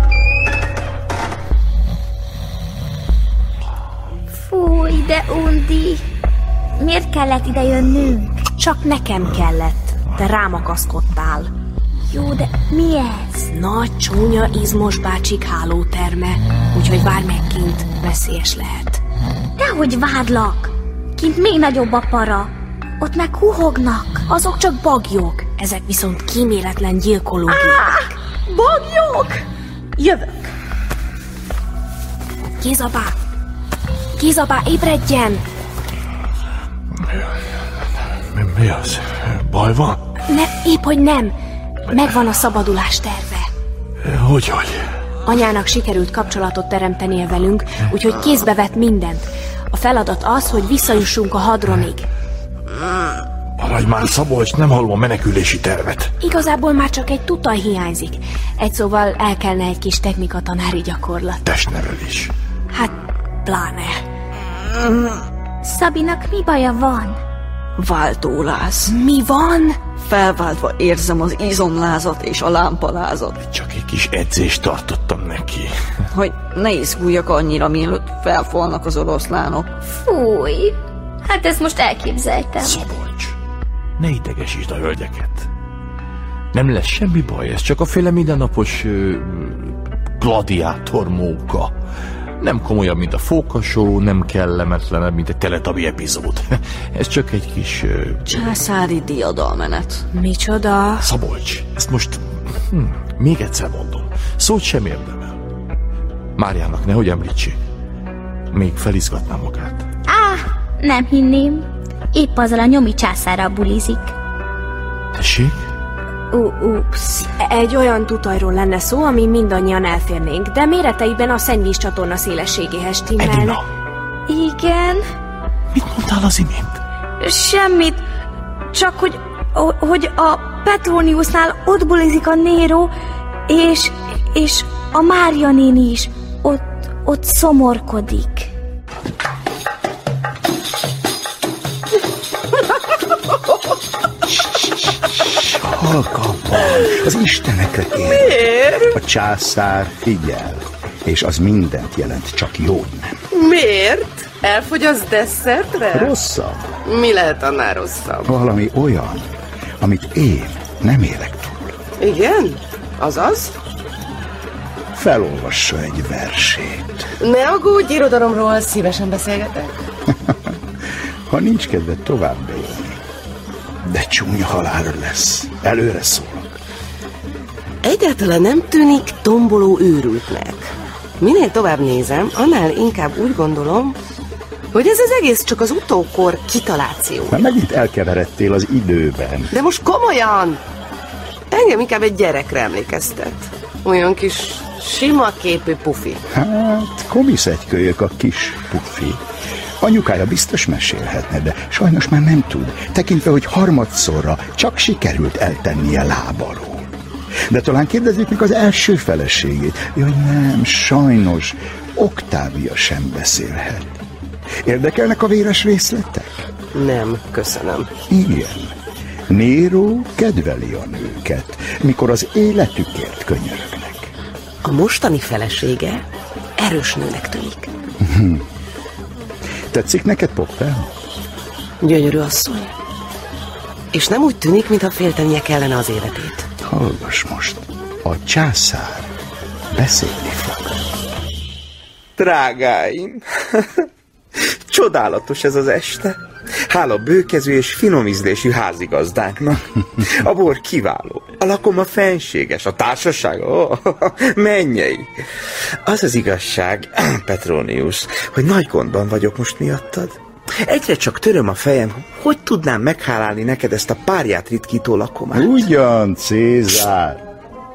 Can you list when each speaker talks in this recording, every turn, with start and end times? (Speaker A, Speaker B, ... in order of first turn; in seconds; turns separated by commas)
Speaker A: 4.3-6.0, Speaker A: 6.8-8.4, Speaker B: 8.6-11.5, Speaker A: 12.1-13.5, Speaker B: 13.5-19.0, Speaker A: 19.6-24.2, Speaker B: 24.3-28.0, Speaker A: 27.5-29.4, Speaker A: 30.0-30.3, Speaker B: 32.6-33.2, Speaker B: 34.2-35.4, Speaker C: 38.3-40.0, Speaker B: 40.3-41.4, Speaker B: 41.9-43.5, Speaker C: 44.0-44.8, Speaker B: 45.2-52.1, Speaker C: 53.6-56.1, Speaker B: 56.2-61.4, Speaker C: 61.5-62.3, Speaker B: 62.7-64.0, Speaker A: 65.6-67.2, Speaker D: 67.8-68.9, Speaker B: 68.9-69.8, Speaker D: 70.0-73.4, Speaker C: 73.4-75.7, Speaker D: 76.1-79.7, Speaker A: 79.9-82.8, Speaker C: 82.6-83.3, Speaker C: 84.0-85.5, Speaker C: 86.5-91.8, Speaker C: 92.4-98.3, Speaker D: 98.3-100.1, Speaker B: 100.1-101.1, Speaker C: 101.0-105.4, Speaker C: 106.4-107.6, Speaker C: 108.5-109.8, Speaker A: 110.1-114.1, Speaker C: 115.1-115.6, Speaker A: 116.3-117.3, Speaker B: 117.4-123.6, Speaker C: 123.2-123.6, Speaker A: 124.3-125.0, Speaker C: 125.7-126.8, Speaker A: 127.2-128.0, Speaker A: 128.7-132.9, Speaker A: 133.5-138.5, Speaker E: 145.6-148.4, Speaker F: 148.1-148.9, Speaker E: 148.9-153.2, Speaker F: 153.3-156.1, Speaker E: 155.9-156.7, Speaker F: 156.8-158.3, Speaker E: 158.2-159.3, Speaker E: 159.8-161.8, Speaker F: 162.0-163.6, Speaker E: 164.9-167.0, Speaker F: 167.2-169.8, Speaker E: 171.3-173.0, Speaker E: 173.8-176.6, Speaker F: 177.8-184.0, Speaker F: 184.7-187.4, Speaker E: 187.3-189.5, Speaker F: 189.5-190.6, Speaker F: 191.5-196.2, Speaker E: 196.3-199.2, Speaker E: 199.8-206.9, Speaker E: 207.5-214.0, Speaker E: 214.7-216.4, Speaker F: 216.7-217.9, Speaker E: 218.1-218.7, Speaker E: 219.3-224.1, Speaker F: 224.6-226.0, Speaker F: 226.6-227.7, Speaker E: 228.0-228.4, Speaker E: 229.7-230.9, Speaker F: 231.8-232.7, Speaker F: 233.9-236.5, Speaker E: 236.6-239.1, Speaker E: 239.7-240.8, Speaker G: 242.2-243.7, Speaker G: 244.7-246.2, Speaker G: 246.7-255.1, Speaker G: 255.9-265.6, Speaker E: 265.3-267.2